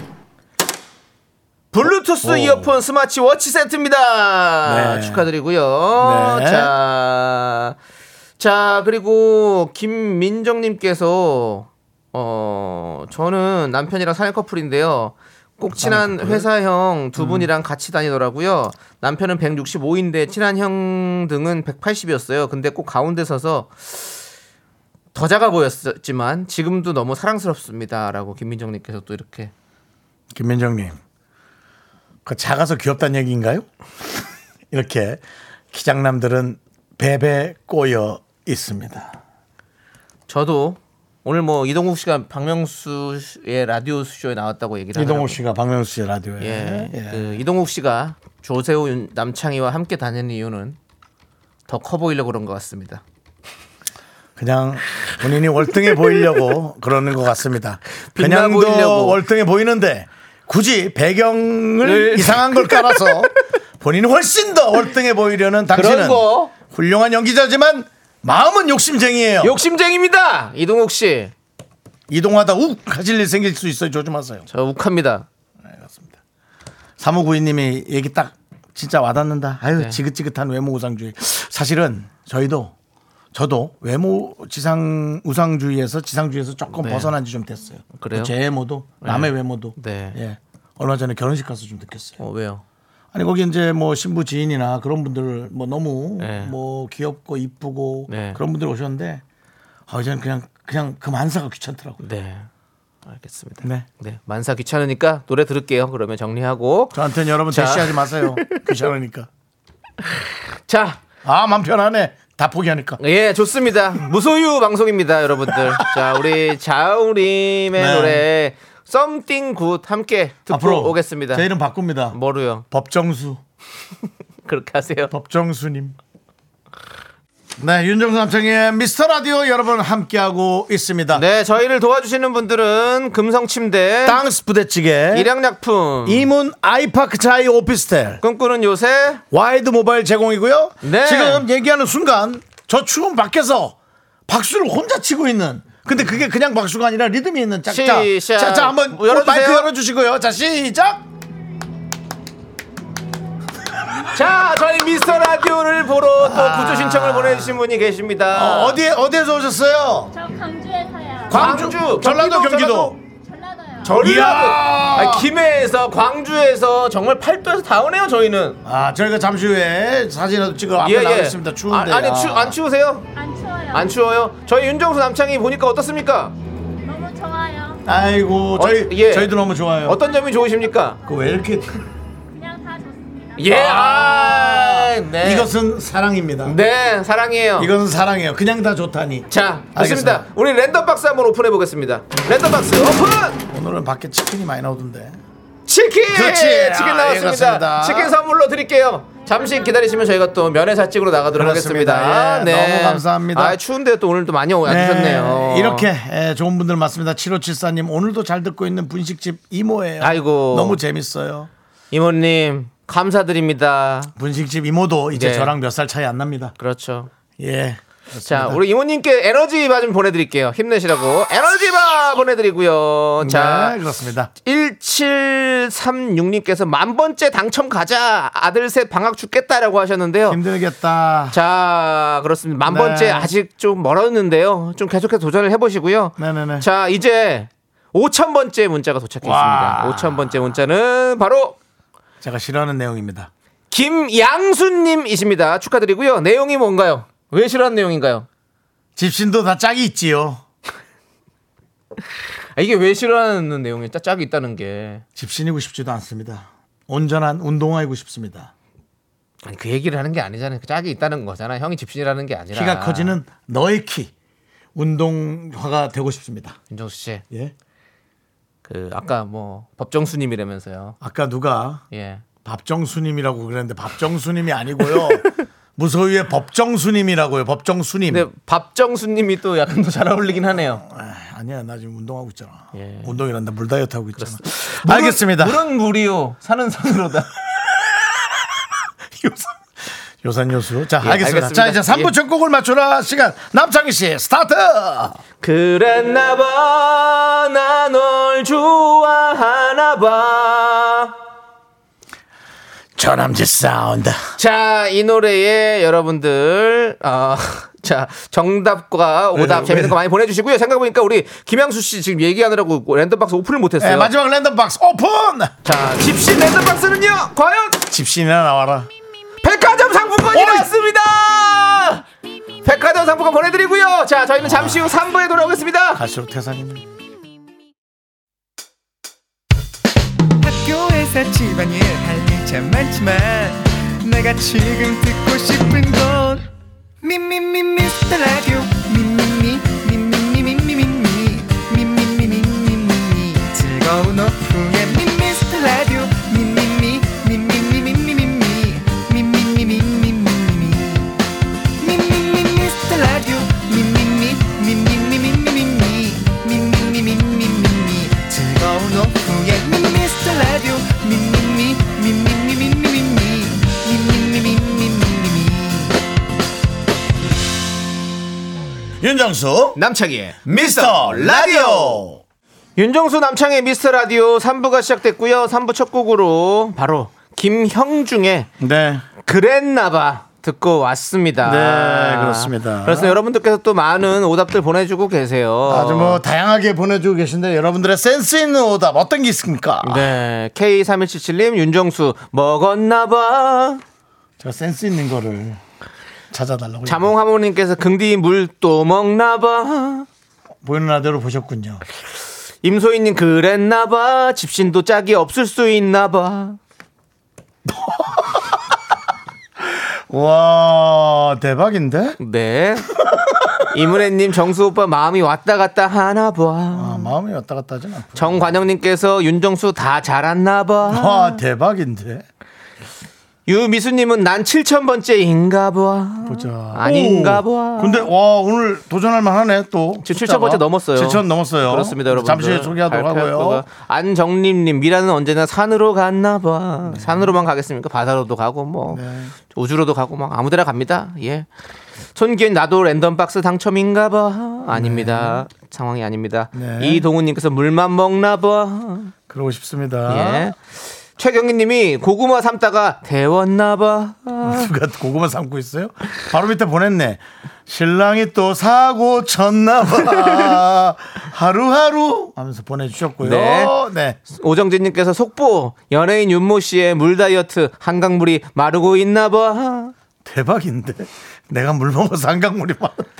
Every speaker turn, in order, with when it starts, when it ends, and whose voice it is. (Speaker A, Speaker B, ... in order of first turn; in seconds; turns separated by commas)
Speaker A: 1.7-7.8, Speaker B: 2.2-2.7, Speaker B: 4.6-5.2, Speaker B: 6.0-6.7, Speaker A: 8.4-24.2, Speaker B: 15.8-16.5, Speaker B: 17.1-17.5, Speaker A: 25.1-29.5, Speaker B: 30.3-31.0, Speaker B: 32.2-33.7, Speaker B: 34.7-35.2, Speaker B: 35.7-39.2, Speaker A: 40.3-45.4, Speaker B: 44.9-47.4, Speaker A: 46.4-50.8, Speaker A: 51.7-53.0, Speaker B: 54.4-69.6, Speaker A: 58.1-59.2, Speaker A: 61.8-63.2, Speaker A: 65.7-66.5, Speaker A: 69.4-71.3, Speaker B: 72.1-74.5, Speaker A: 74.5-75.2, Speaker B: 75.7-76.2, Speaker B: 77.0-82.7, Speaker B: 83.3-92.2, Speaker A: 86.7-87.1, Speaker A: 87.9-88.3, Speaker A: 89.0-90.2, Speaker A: 92.2-92.6, Speaker B: 93.1-99.2, Speaker A: 96.2-96.5, Speaker A: 98.1-98.4, Speaker B: 99.9-102.0, Speaker A: 102.0-102.5, Speaker A: 103.0-107.0, Speaker B: 106.9-109.3, Speaker A: 107.5-108.6, Speaker A: 110.7-111.0, Speaker B: 111.2-113.0, Speaker A: 113.0-121.5, Speaker B: 117.8-118.2, Speaker B: 120.5-122.2, Speaker A: 122.1-122.6, Speaker B: 122.7-123.4, Speaker A: 124.5-125.1, Speaker B: 125.1-126.0, Speaker B: 127.6-131.2, Speaker A: 131.1-134.2, Speaker B: 134.0-135.3, Speaker A: 135.1-136.3, Speaker B: 136.0-138.2, Speaker A: 138.2-139.2, Speaker B: 139.3-143.8, Speaker A: 140.8-141.4, Speaker B: 144.3-151.1, Speaker A: 147.7-149.7, Speaker A: 154.1-158.8, Speaker B: 156.2-157.6, Speaker B: 158.3-160.1, Speaker C: 160.1-161.6, Speaker A: 161.3-162.9, Speaker B: 161.3-163.0, Speaker C: 163.2-164.0, Speaker A: 163.8-168.6, Speaker B: 163.9-165.3, Speaker B: 168.6-172.6, Speaker A: 170.8-173.1, Speaker C: 173.1-174.2, Speaker A: 173.7-176.3, Speaker C: 176.8-177.8, Speaker B: 177.8-180.0, Speaker A: 178.6-181.0, Speaker C: 179.9-181.4, Speaker B: 181.0-181.8, Speaker C: 182.3-183.9, Speaker A: 183.4-185.5, Speaker B: 183.4-186.6, Speaker A: 186.4-187.7, Speaker B: 187.6-190.2, Speaker A: 189.3-193.4, Speaker B: 193.5-195.2, Speaker A: 195.7-205.9, Speaker B: 196.1-198.2, Speaker C: 199.3-199.9, Speaker B: 201.3-203.6, Speaker B: 204.6-211.5, Speaker A: 210.0-210.8, Speaker A: 211.9-214.1, Speaker B: 214.2-216.5, Speaker A: 215.1-215.5, Speaker A: 216.6-217.1, Speaker B: 217.4-218.6, Speaker A: 218.3-223.8, Speaker B: 223.2-224.3, Speaker A: 224.4-230.4, Speaker B: 230.3-231.4, Speaker A: 231.3-241.6, Speaker B: 232.6-233.3, Speaker B: 236.2-236.7, Speaker B: 239.2-240.5, Speaker B: 242.2-243.3, Speaker A: 243.7-248.3, Speaker B: 248.9-250.4, Speaker A: 252.6-255.0, Speaker B: 255.2-258.5, Speaker A: 259.4-263.2, Speaker B: 262.5-264.1, Speaker B: 264.7-266.6, Speaker A: 266.7-267.2, Speaker A: 268.6-271.0, Speaker B: 271.0-271.8, Speaker A: 271.9-272.2, Speaker B: 272.4-278.3, Speaker A: 278.1-280.8, Speaker B: 280.8-285.6, Speaker A: 282.7-283.1, Speaker A: 284.2-287.3, Speaker B: 289.1-289.6, Speaker B: 290.2-295.2, Speaker A: 291.0-292.1, Speaker A: 295.4-301.1, Speaker B: 302.9-304.2, Speaker A: 304.4-314.1, Speaker B: 309.3-309.9, Speaker B: 313.8-315.5, Speaker A: 315.6-317.8, Speaker B: 317.9-318.9, Speaker A: 319.4-322.0, Speaker B: 320.3-320.7, Speaker A: 322.6-326.0, Speaker B: 324.4-324.9, Speaker B: 325.9-326.8, Speaker D: 330.4-336.4, Speaker D: 337.0-351.1, Speaker D: 351.8-365.9, Speaker B: 369.0-369.8, Speaker A: 369.8-372.0, Speaker B: 370.4-372.2, Speaker A: 372.8-378.5, Speaker B: 378.6-379.0, Speaker A: 379.2-386.2, Speaker B: 381.4-383.2, Speaker B: 385.7-390.1, Speaker A: 389.8-393.8, Speaker B: 394.4-395.6, Speaker B: 396.3-397.1, Speaker A: 396.8-400.1, Speaker B: 400.6-401.8, Speaker A: 402.6-406.6, Speaker B: 407.7-408.3, Speaker B: 409.7-412.2, Speaker A: 412.2-412.9, Speaker A: 413.7-417.1, Speaker B: 416.7-418.5, Speaker A: 418.1-421.4, Speaker B: 420.9-422.2, Speaker A: 423.5-428.1, Speaker B: 426.2-433.6, Speaker A: 430.0-441.5, Speaker B: 436.9-437.2, Speaker B: 438.9-439.3, Speaker A: 442.1-449.1, Speaker B: 444.7-445.4, Speaker B: 446.5-447.0, Speaker B: 449.3-450.5, Speaker A: 450.1-450.6, Speaker A: 451.2-454.7, Speaker B: 454.4-464.2, Speaker A: 463.2-463.7, Speaker A: 464.3-469.9, Speaker B: 470.2-473.1